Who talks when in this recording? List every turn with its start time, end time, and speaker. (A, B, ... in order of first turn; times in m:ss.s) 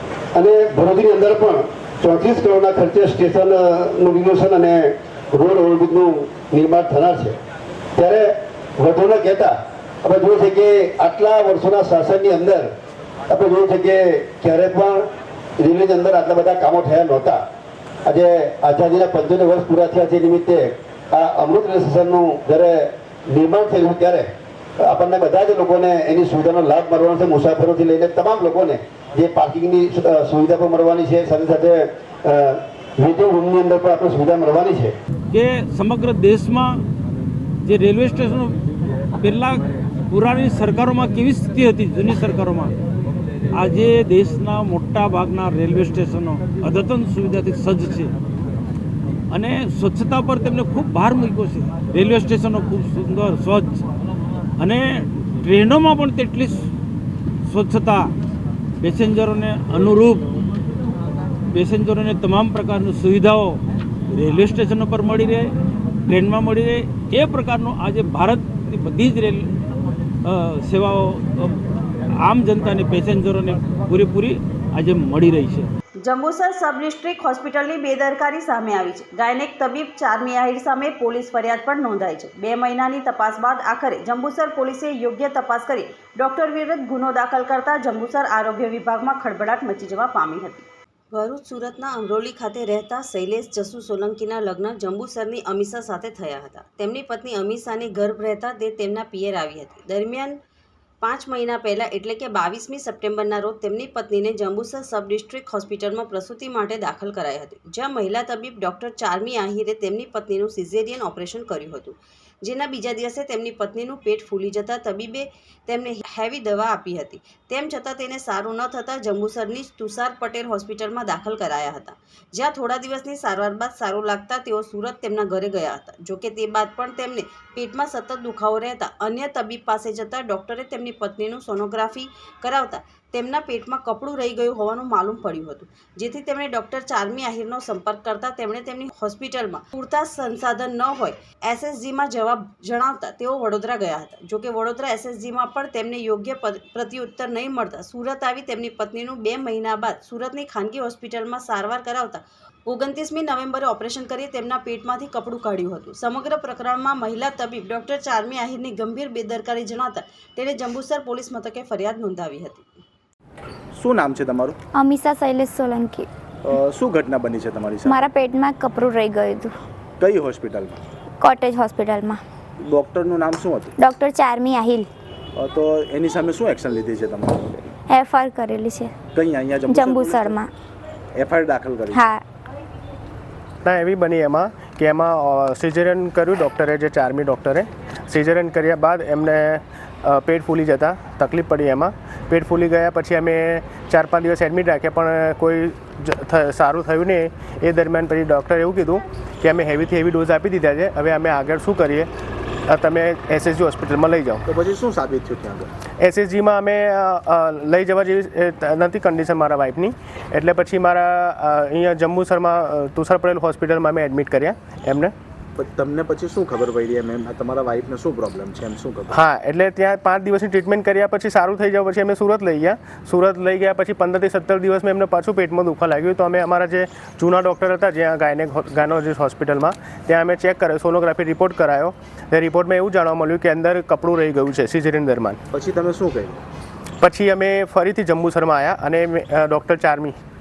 0:00.3-0:07.4 A
0:08.0-0:12.7 A
0:13.3-0:15.1 A
0:15.6-0:17.4 A
0:18.0-0:34.9 A
0:35.3-0:36.8 B
0:37.6-0:38.6 B
0:39.2-0:42.7 B
0:43.5-0:48.1 B
0:49.3-0:53.8 B
0:54.6-0:56.6 B
0:57.5-0:58.1 B
0:58.8-1:00.2 B
1:01.5-1:03.6 B
1:04.1-1:05.5 B
1:06.1-1:09.5 B
1:10.2-1:11.5 B
1:12.2-1:15.7 B
1:16.0-1:40.4 C
1:41.0-2:42.7 C
2:43.7-2:44.6 D
2:44.7-2:46.1 E
2:46.4-2:48.0 D
2:47.8-2:49.5 E
2:50.0-2:50.8 D
2:51.2-2:52.2 E
2:52.6-2:53.7 D
2:53.8-2:54.9 E
2:55.4-2:57.6 D
2:57.9-2:58.9 E
2:59.1-3:00.4 D
2:59.7-3:00.5 E
3:01.2-3:02.0 D
3:01.9-3:02.2 E
3:03.6-3:22.1 F
3:22.7-3:24.4 F
3:24.4-3:25.7 D
3:26.0-3:35.1 F
3:35.6-3:39.2 D
3:39.1-3:55.4 F
3:55.5-3:56.4 D
3:57.0-4:00.2 F